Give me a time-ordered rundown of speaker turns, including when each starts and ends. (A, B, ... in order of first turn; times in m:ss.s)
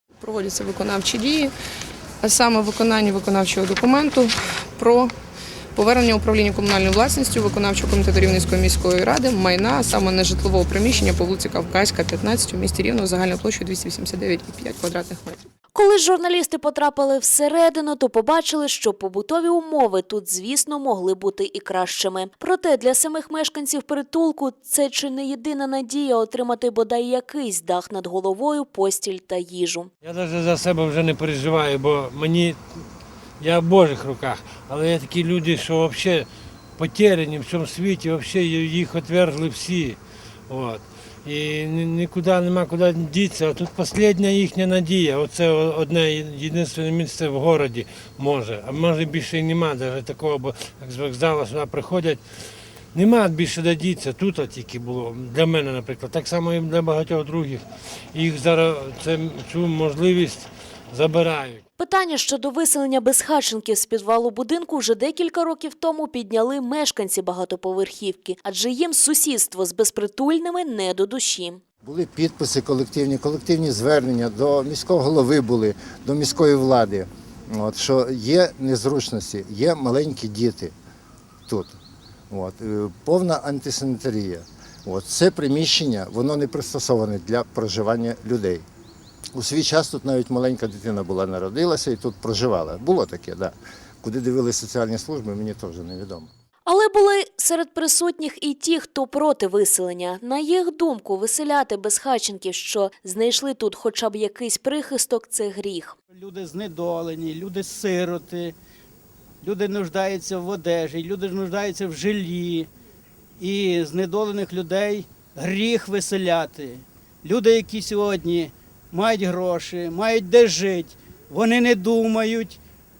0:00.2-0:01.5 A
0:02.2-0:05.1 A
0:05.8-0:15.4 A
0:15.7-0:29.9 B
0:30.0-0:32.8 C
0:33.4-0:40.0 C
0:40.5-0:52.2 C
0:52.9-1:01.6 C
1:01.8-1:11.6 B
1:11.8-1:20.7 D
1:21.5-1:21.8 D
1:22.3-1:28.6 D
1:29.3-1:36.3 D
1:36.7-1:46.0 B
1:46.1-1:48.6 E
1:49.4-1:52.7 E
1:53.4-2:02.6 E